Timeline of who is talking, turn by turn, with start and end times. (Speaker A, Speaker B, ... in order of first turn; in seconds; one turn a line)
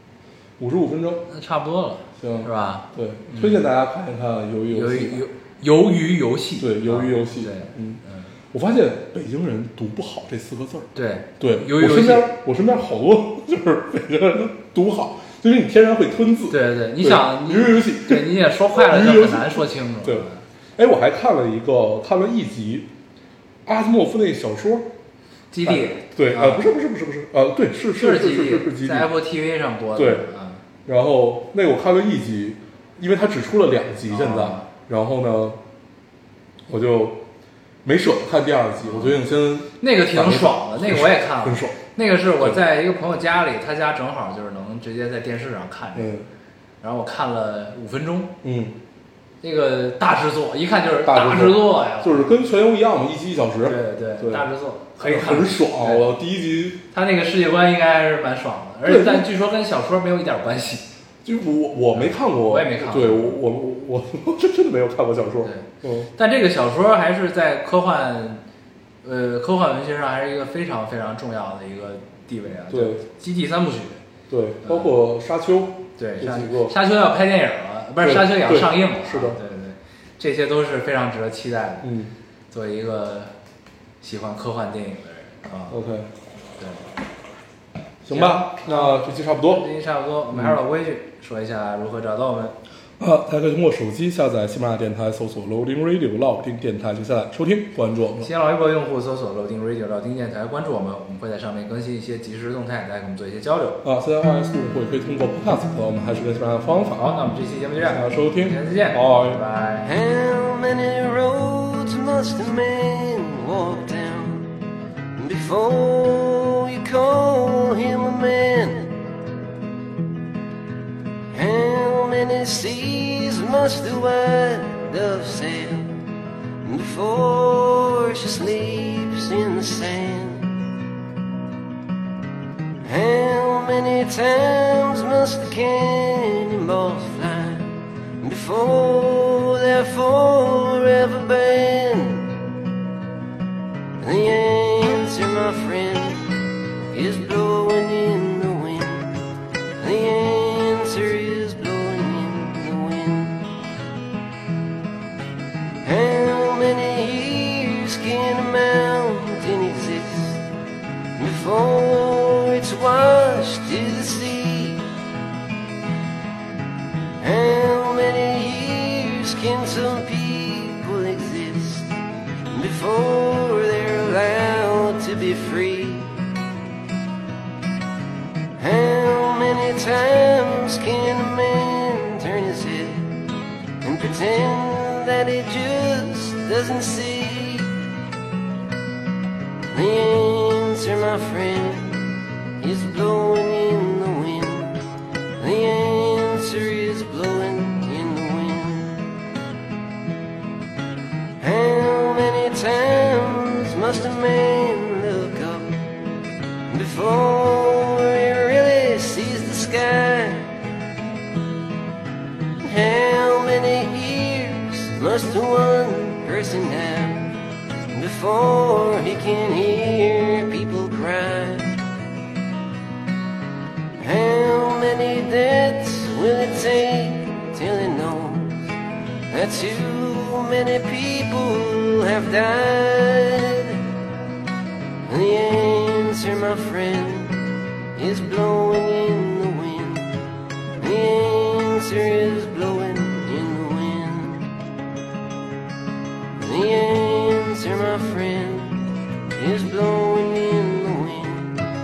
Speaker A: 0.6-1.2
Speaker B: 1.3-3.6
Speaker A: 2.2-5.2
Speaker B: 4.7-8.3
Speaker A: 6.6-8.0
Speaker A: 8.5-22.9
Speaker B: 10.9-12.3
Speaker B: 16.5-20.4
Speaker A: 23.7-24.9
Speaker B: 25.5-26.7
Speaker A: 25.6-29.1
Speaker B: 28.0-30.6
Speaker A: 30.0-30.2
Speaker A: 30.9-35.6
Speaker B: 34.1-34.7
Speaker A: 36.7-37.2
Speaker A: 37.9-41.8
Speaker B: 38.8-39.2
Speaker B: 39.8-46.1
Speaker A: 46.0-46.3
Speaker B: 46.8-48.3
Speaker A: 48.4-48.8
Speaker B: 49.4-52.4
Speaker A: 51.0-54.5
Speaker B: 53.6-56.1
Speaker A: 55.0-56.8
Speaker B: 56.9-60.9
Speaker A: 58.9-59.3
Speaker A: 61.2-66.1
Speaker B: 61.9-63.4
Speaker B: 65.4-68.4
Speaker B: 69.0-74.0
Speaker A: 72.7-73.0
Speaker A: 74.3-76.8
Speaker B: 74.6-74.9
Speaker B: 76.0-81.9
Speaker A: 78.0-79.4
Speaker A: 81.8-82.1
Speaker B: 82.5-83.3
Speaker B: 84.0-85.8
Speaker A: 85.7-86.1
Speaker B: 86.6-86.9
Speaker A: 88.0-89.7
Speaker B: 88.1-92.6
Speaker A: 93.0-98.3
Speaker B: 98.2-103.8
Speaker A: 103.8-107.1
Speaker B: 107.0-109.9
Speaker A: 107.8-109.4
Speaker C: 109.8-114.5
Speaker C: 115.2-119.0
Speaker C: 121.3-126.0
Speaker C: 126.6-130.6
Speaker C: 132.8-142.4
Speaker C: 144.0-146.4
Speaker C: 146.9-149.2
Speaker C: 149.8-153.5
Speaker C: 155.8-160.4
Speaker C: 161.2-164.9
Speaker C: 167.2-172.0
Speaker C: 172.5-176.2
Speaker C: 178.6-183.2
Speaker C: 183.8-187.8
Speaker C: 189.7-194.8
Speaker C: 195.4-199.1
Speaker C: 201.4-205.8
Speaker C: 206.7-210.6
Speaker C: 212.6-217.4
Speaker C: 217.9-221.8
Speaker C: 224.0-228.7
Speaker C: 229.3-233.8
Speaker C: 235.1-240.2
Speaker C: 240.8-244.5
Speaker C: 246.4-251.6